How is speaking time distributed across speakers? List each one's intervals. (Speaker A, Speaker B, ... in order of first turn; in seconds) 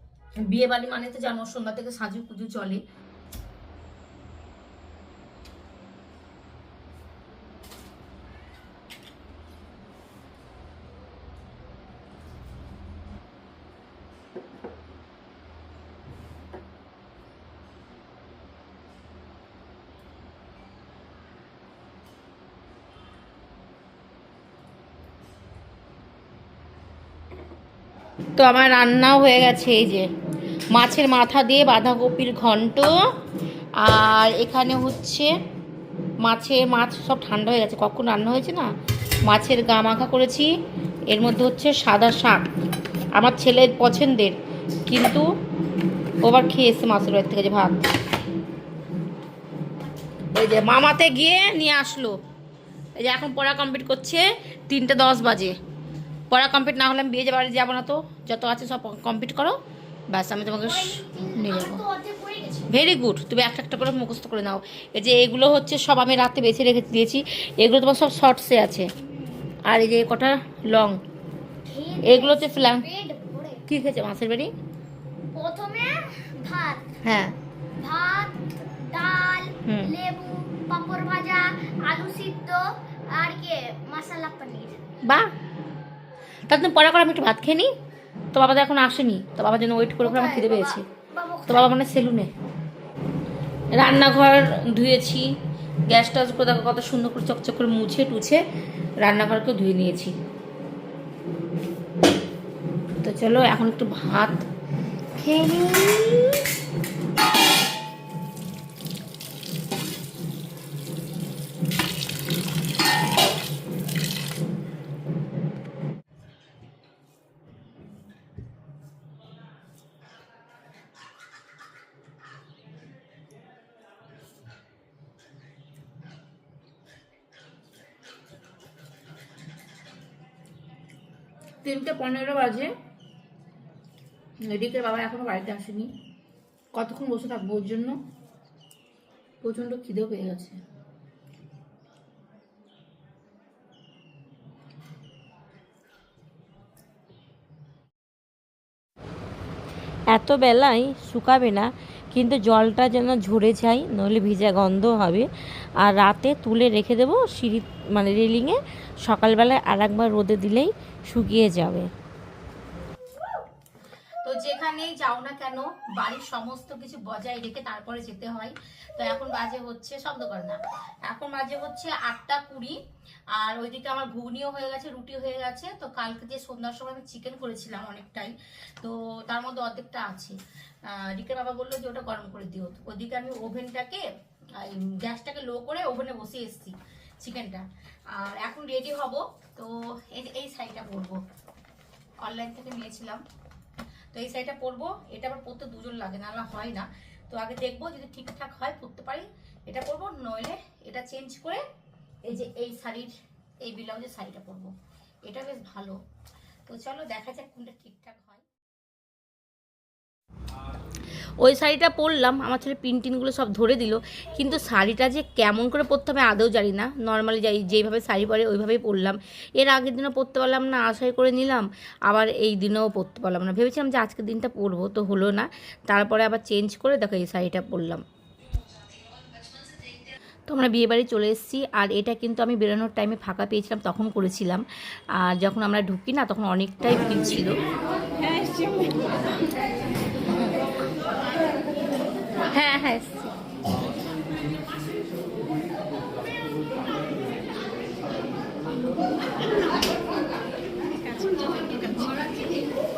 Speaker A: 0.5-2.8, 28.4-30.1, 30.7-32.9, 33.8-35.3, 36.2-38.7, 39.3-40.5, 41.1-42.5, 43.2-45.2, 46.2-47.9, 50.3-52.1, 53.0-55.5, 56.3-59.6, 60.1-61.8, 62.7-68.9, 69.7-71.0, 72.0-72.8, 73.7-74.5, 77.0-77.3, 79.7-79.9, 85.0-85.3, 86.5-87.7, 88.3-90.8, 91.5-92.3, 93.7-95.3, 95.9-98.4, 99.0-100.1, 103.0-104.4, 105.2-106.4, 131.6-132.7, 134.5-135.9, 136.7-138.0, 139.4-140.6, 164.2-172.8, 173.4-180.3, 180.9-184.0, 184.6-187.6, 188.2-191.2, 192.2-193.2, 194.1-201.6, 202.3-203.1, 203.6-204.7, 205.3-206.0, 206.7-208.4, 211.4-228.0, 230.5-234.6, 235.2-237.6, 242.5-243.3
Speaker B: 60.6-62.7, 71.7-73.6, 75.3-77.0, 77.8-84.8, 90.0-91.8
Speaker C: 150.1-155.3, 155.8-161.9